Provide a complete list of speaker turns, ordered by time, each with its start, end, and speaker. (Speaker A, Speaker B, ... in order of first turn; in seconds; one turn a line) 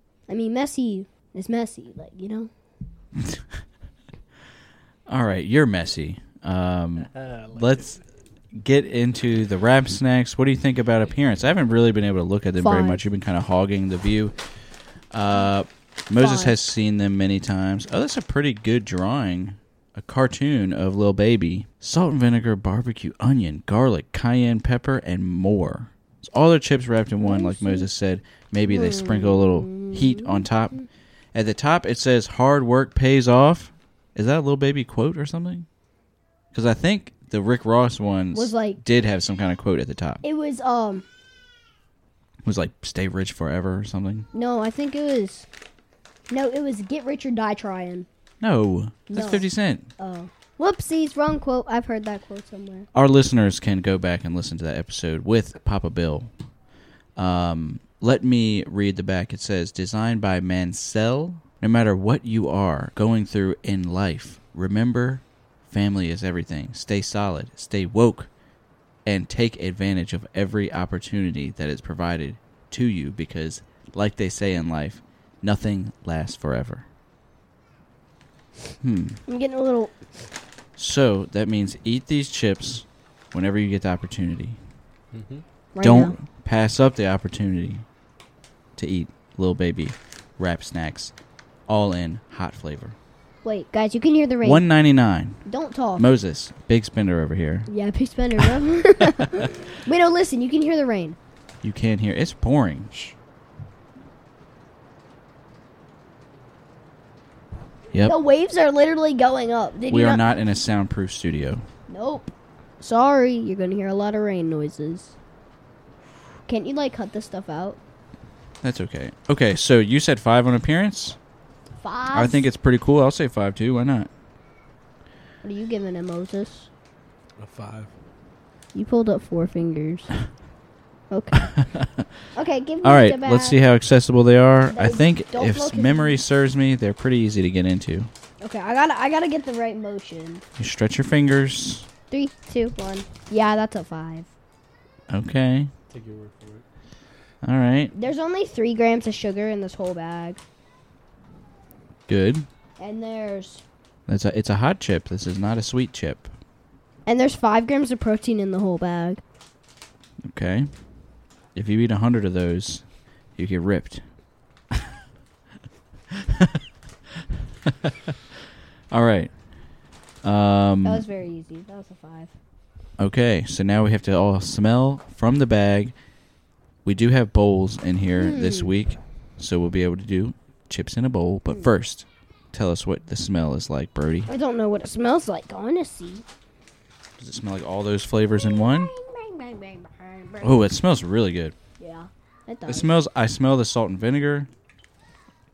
Speaker A: 0.3-2.5
Speaker B: 5.1-8.0
Speaker C: 7.2-7.6
Speaker B: 8.5-14.3
Speaker A: 12.6-13.0
Speaker B: 15.1-30.8
Speaker A: 16.2-16.5
Speaker A: 27.2-27.9
Speaker A: 28.7-30.4
Speaker B: 31.3-35.7
Speaker B: 36.5-40.2
Speaker A: 38.3-38.8
Speaker A: 40.2-41.0
Speaker B: 42.4-44.3
Speaker A: 44.3-45.5
Speaker A: 46.3-48.1
Speaker B: 48.4-49.9
Speaker A: 49.1-49.5
Speaker A: 50.0-52.9
Speaker B: 52.9-56.3
Speaker B: 57.2-68.3
Speaker B: 69.1-76.9
Speaker B: 78.8-79.2
Speaker A: 79.3-80.0
Speaker B: 80.8-84.6
Speaker C: 85.1-85.4
Speaker A: 85.8-86.2
Speaker B: 85.8-87.8
Speaker B: 88.8-91.1
Speaker B: 91.7-93.0
Speaker A: 93.4-94.7
Speaker B: 94.4-95.4
Speaker A: 95.5-96.1
Speaker B: 96.0-97.7
Speaker A: 97.7-101.2
Speaker B: 101.6-103.2
Speaker B: 107.9-108.2
Speaker A: 108.0-110.2
Speaker B: 109.9-111.7
Speaker A: 111.9-115.1
Speaker A: 116.5-117.8
Speaker B: 118.6-121.2
Speaker A: 121.8-122.4
Speaker B: 122.1-124.1
Speaker A: 125.4-126.7
Speaker C: 127.4-127.9
Speaker A: 128.7-130.1
Speaker A: 131.1-131.5
Speaker B: 131.4-132.1
Speaker A: 132.3-133.6
Speaker B: 132.8-138.1
Speaker A: 134.7-136.2
Speaker A: 138.4-140.4
Speaker B: 140.6-141.9
Speaker A: 142.1-144.3
Speaker B: 145.1-145.7
Speaker C: 145.9-146.7
Speaker B: 147.4-147.9
Speaker A: 147.9-150.4
Speaker B: 152.1-152.5
Speaker A: 152.8-153.6
Speaker B: 154.1-156.3
Speaker A: 157.1-159.2
Speaker B: 160.2-160.7
Speaker B: 161.6-162.8
Speaker B: 163.4-164.0
Speaker B: 166.1-166.6
Speaker B: 167.6-168.2
Speaker B: 168.9-169.3
Speaker B: 170.2-171.0
Speaker A: 170.8-172.3
Speaker B: 173.0-175.9
Speaker B: 176.8-184.3
Speaker A: 178.2-178.7
Speaker A: 184.3-186.2
Speaker B: 187.2-188.9
Speaker A: 188.4-190.6
Speaker B: 190.4-191.6
Speaker A: 191.8-192.9
Speaker B: 192.7-194.5